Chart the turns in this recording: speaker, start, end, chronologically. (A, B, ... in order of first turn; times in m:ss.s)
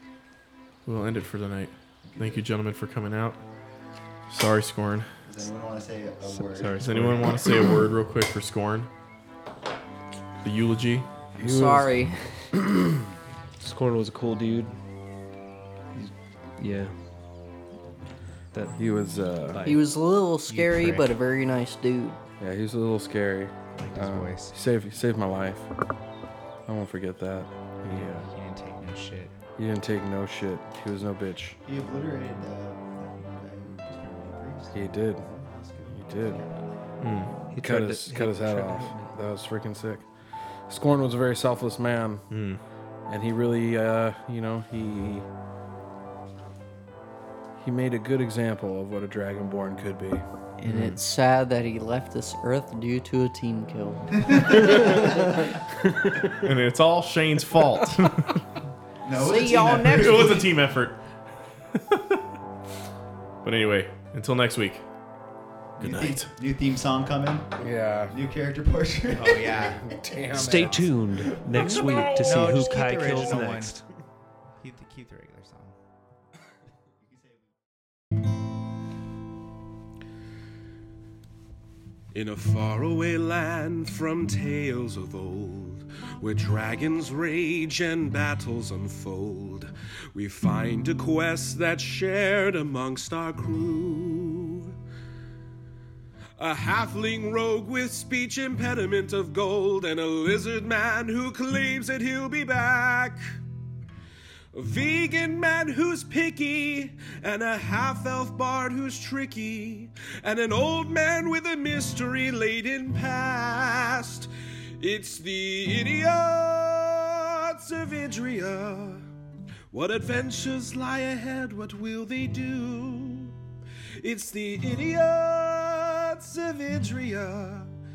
0:00.8-0:03.4 A
0:02.0-0:02.4 B
0:04.3-0:05.1 A
0:05.2-0:06.7 B
0:06.2-0:07.6 C
0:06.8-0:08.9 A
0:10.4-0:11.0 A
0:11.4-0:12.3 D
0:11.4-0:11.7 C
0:11.5-0:11.8 E
0:13.6-0:14.8 C
0:15.9-0:17.0 C
0:18.5-0:19.8 C
0:18.8-0:19.6 E
0:19.6-0:22.2 D
0:20.5-0:21.1 F
0:22.4-0:25.7 E
0:23.7-0:24.6 F
0:26.6-0:28.3 E
0:27.9-0:29.3 F
0:29.6-0:31.6 E
0:31.6-0:37.4 B
0:34.7-0:35.2 E
0:35.9-0:36.4 E
0:37.0-0:37.3 A
0:37.5-0:39.2 C
0:37.6-0:40.0 E
0:40.7-0:42.2 E
0:42.3-0:42.6 A
0:43.1-0:45.2 E
0:47.6-0:50.2 E
0:50.6-0:55.4 D
0:50.6-0:51.0 A
0:56.3-0:58.4 A
0:59.0-1:00.5 B
0:59.1-1:00.4 D
0:59.7-1:01.0 A
1:01.7-1:02.2 A
1:03.4-1:04.8 A
1:05.8-1:07.6 B
1:05.8-1:06.3 A
1:07.6-1:08.1 E
1:08.1-1:09.8 B
1:09.1-1:09.9 F
1:09.8-1:10.8 E
1:10.3-1:11.7 B
1:10.3-1:13.8 C
1:11.5-1:12.5 E
1:12.1-1:13.8 F
1:14.6-1:15.8 F
1:22.1-1:34.7 G
1:36.4-1:43.3 G
1:44.5-1:59.0 G
1:59.7-2:03.3 G
2:04.0-2:07.7 G